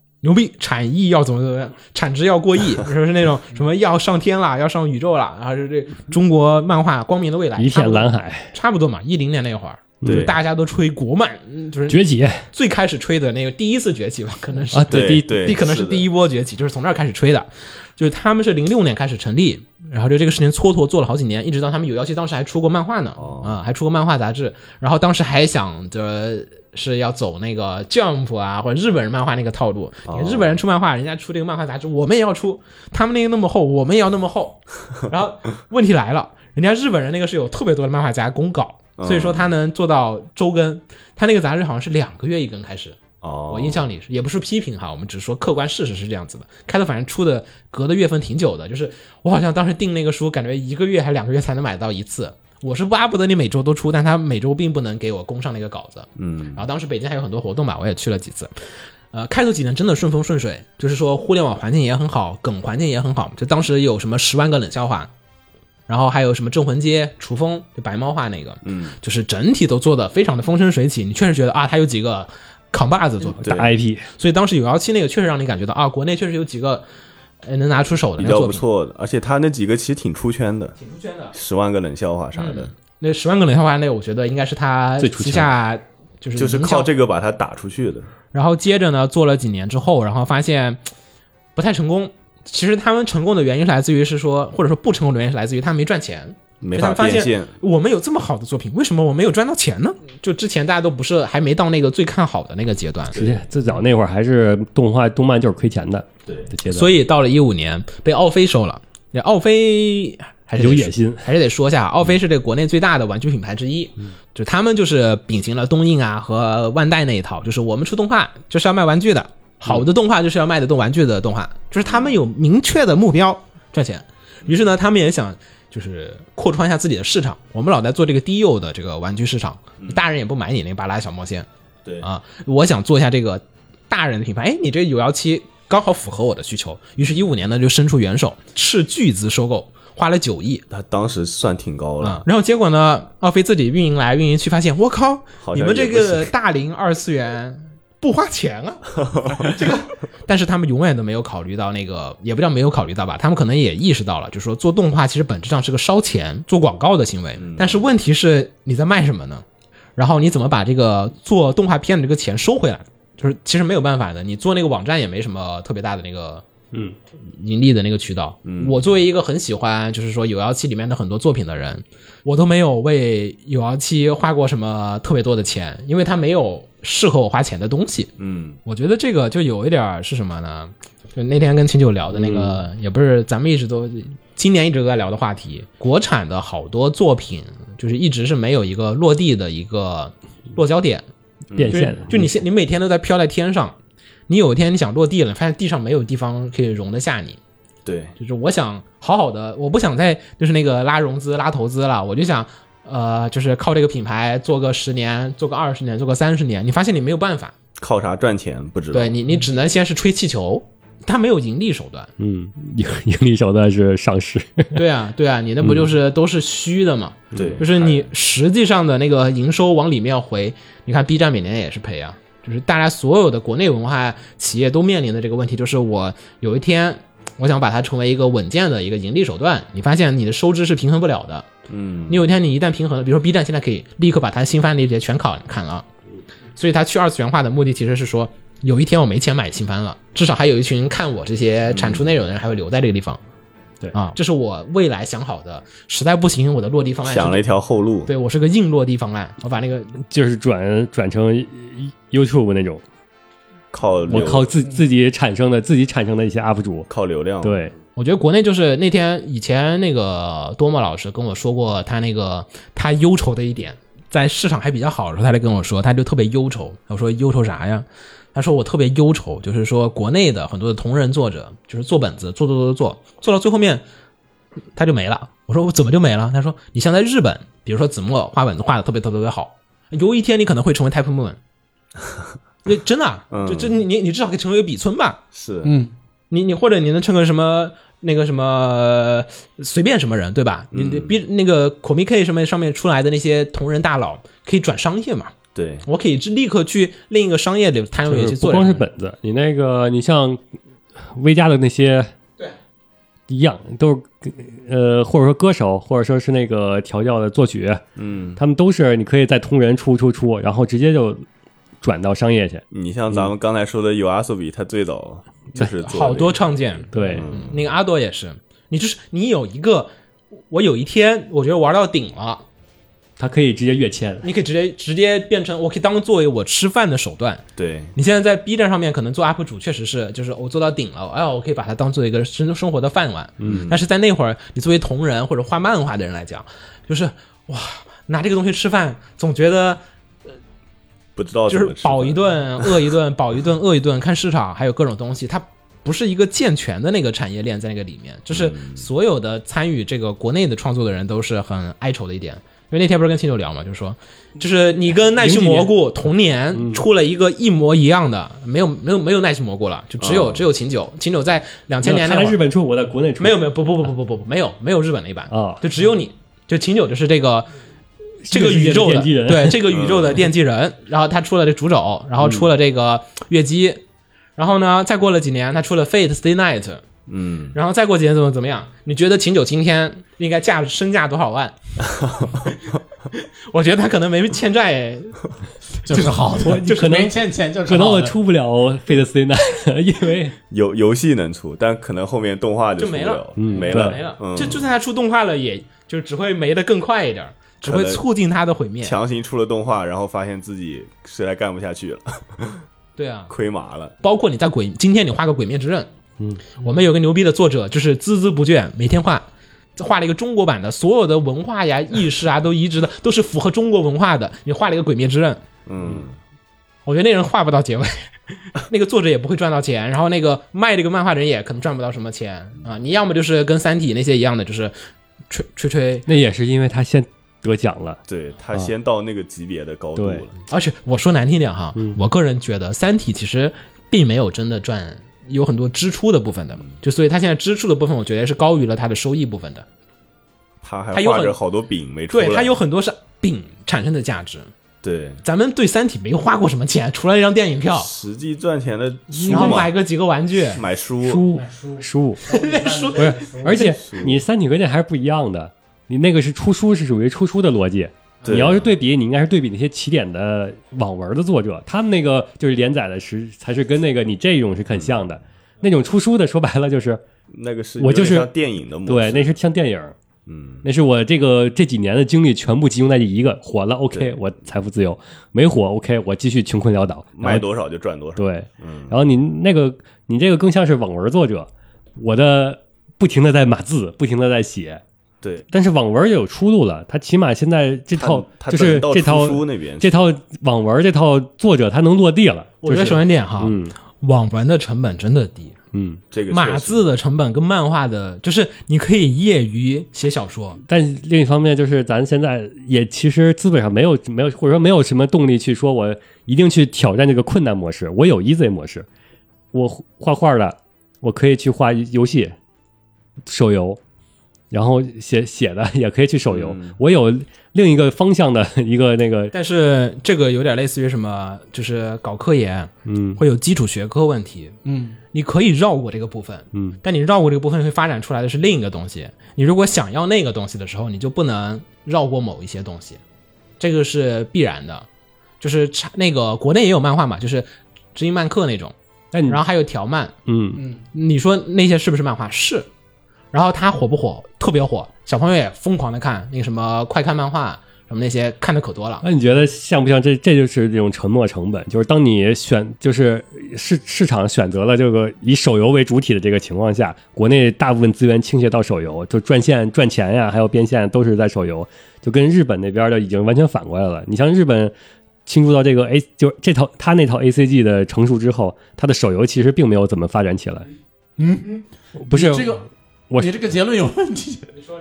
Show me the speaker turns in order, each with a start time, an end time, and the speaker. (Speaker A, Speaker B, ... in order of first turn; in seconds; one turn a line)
Speaker A: 0.2-12.0
Speaker B: 7.6-8.5
Speaker B: 10.0-10.3
Speaker C: 10.0-10.3
Speaker B: 11.9-12.4
Speaker A: 12.5-58.5
Speaker B: 14.7-15.5
Speaker C: 14.9-16.1
Speaker C: 23.2-23.6
Speaker C: 30.1-30.6
Speaker C: 39.0-39.5
Speaker C: 43.2-43.8
Speaker C: 56.2-56.6
Speaker A: 59.1-65.1
Speaker A: 65.9-76.8
Speaker C: 68.6-68.9
Speaker B: 73.2-74.1
Speaker A: 77.4-78.6
Speaker C: 78.2-80.8
Speaker A: 80.8-81.3
Speaker C: 81.3-82.7
Speaker A: 82.3-86.9
Speaker B: 85.0-85.5
Speaker C: 86.3-88.1
Speaker A: 88.3-90.8
Speaker A: 91.5-103.2
Speaker C: 96.6-97.5
Speaker B: 103.1-106.9
Speaker A: 106.7-131.5
Speaker B: 110.6-111.2
Speaker C: 121.8-122.1
Speaker A: 132.0-140.7
Speaker C: 140.7-142.2
Speaker A: 142.0-159.4
Speaker C: 145.4-146.3
Speaker C: 149.1-149.5
Speaker C: 157.4-157.8
Speaker A: 160.0-166.4
Speaker A: 167.3-178.1
Speaker C: 168.4-168.8
Speaker C: 178.2-178.6
Speaker A: 178.6-191.0
Speaker B: 182.1-182.6
Speaker C: 191.5-191.8
Speaker B: 191.5-192.3
Speaker A: 191.7-193.8
Speaker A: 194.3-197.4
Speaker C: 197.8-198.1
Speaker A: 198.2-207.5
Speaker C: 207.8-209.1
Speaker A: 208.9-212.1
Speaker B: 212.2-214.8
Speaker A: 214.7-231.5
Speaker B: 217.3-217.6
Speaker C: 217.3-218.1
Speaker C: 231.7-232.2
Speaker A: 232.1-235.8
Speaker A: 236.6-243.2
Speaker C: 241.7-242.1
Speaker A: 243.9-247.4
Speaker C: 247.0-248.1
Speaker A: 248.1-250.0
Speaker B: 250.0-252.8
Speaker C: 253.7-254.5
Speaker B: 254.1-256.9
Speaker C: 256.9-257.7
Speaker B: 257.4-257.7
Speaker A: 257.9-273.8
Speaker A: 274.8-281.4
Speaker A: 282.6-285.2
Speaker C: 283.3-283.8
Speaker C: 285.3-285.7
Speaker D: 285.6-285.9
Speaker A: 286.3-298.9
Speaker C: 290.7-291.1
Speaker C: 295.5-295.8
Speaker B: 298.1-300.4
Speaker B: 301.0-302.1
Speaker B: 303.3-307.8
Speaker C: 308.0-308.4
Speaker B: 308.4-311.2
Speaker B: 311.8-313.3
Speaker C: 312.7-316.4
Speaker A: 315.6-319.9
Speaker B: 316.9-317.3
Speaker C: 317.0-317.6
Speaker A: 320.5-322.4
Speaker B: 323.2-324.2
Speaker A: 324.2-339.8
Speaker C: 327.6-327.9
Speaker C: 333.4-333.8
Speaker C: 341.1-342.6
Speaker A: 341.5-362.4
Speaker C: 348.3-348.9
Speaker B: 355.2-355.7
Speaker B: 356.5-356.8
Speaker C: 360.0-360.4
Speaker B: 361.8-363.4
Speaker A: 363.2-367.5
Speaker B: 365.3-365.6
Speaker B: 368.2-369.6
Speaker A: 368.3-373.8
Speaker C: 369.7-370.2
Speaker A: 374.4-376.8
Speaker C: 377.1-377.5
Speaker A: 377.5-381.6
Speaker C: 382.1-382.3
Speaker A: 383.1-385.2
Speaker D: 385.8-388.2
Speaker A: 385.9-387.0
Speaker B: 386.4-390.4
Speaker C: 390.5-394.7
Speaker A: 392.8-399.0
Speaker B: 393.4-394.0
Speaker C: 397.6-398.0
Speaker C: 398.8-402.6
Speaker A: 403.0-403.3
Speaker C: 403.3-403.9
Speaker A: 404.0-405.9
Speaker A: 406.6-415.4
Speaker C: 415.6-416.2
Speaker A: 416.9-424.7
Speaker A: 425.3-426.1
Speaker B: 426.1-428.0
Speaker C: 428.1-430.4
Speaker B: 429.9-430.2
Speaker A: 430.5-439.6
Speaker C: 440.6-442.5
Speaker A: 440.9-441.4
Speaker A: 442.1-444.5
Speaker C: 444.8-445.2
Speaker A: 445.2-447.9
Speaker C: 447.7-449.7
Speaker B: 449.2-449.6
Speaker A: 449.2-450.6
Speaker C: 450.4-451.2
Speaker B: 451.0-452.2
Speaker D: 451.3-453.6
Speaker A: 452.2-453.8
Speaker B: 452.9-467.0
Speaker C: 453.8-454.2
Speaker C: 458.2-458.7
Speaker C: 464.7-465.1
Speaker C: 467.3-469.3
Speaker B: 467.8-468.3
Speaker B: 468.9-469.9
Speaker C: 470.3-470.6
Speaker B: 470.6-477.4
Speaker C: 477.2-479.0
Speaker B: 478.1-484.8
Speaker B: 485.5-493.7
Speaker C: 487.9-489.9
Speaker A: 492.6-495.5
Speaker B: 495.7-496.0
Speaker C: 496.1-496.8
Speaker A: 496.3-500.6
Speaker B: 500.7-508.9
Speaker B: 509.5-512.3
Speaker B: 513.3-513.8
Speaker B: 514.5-519.3
Speaker C: 516.3-516.8
Speaker A: 519.3-524.6
Speaker B: 522.9-523.2
Speaker D: 524.6-525.0
Speaker A: 525.1-533.0
Speaker A: 533.6-534.9
Speaker A: 535.4-538.7
Speaker B: 539.1-539.4
Speaker A: 539.3-540.1
Speaker B: 540.2-540.6
Speaker A: 540.9-542.7
Speaker A: 543.3-549.0
Speaker B: 549.0-564.7
Speaker B: 565.2-570.7
Speaker D: 571.2-572.6
Speaker B: 572.0-573.4
Speaker D: 573.2-574.5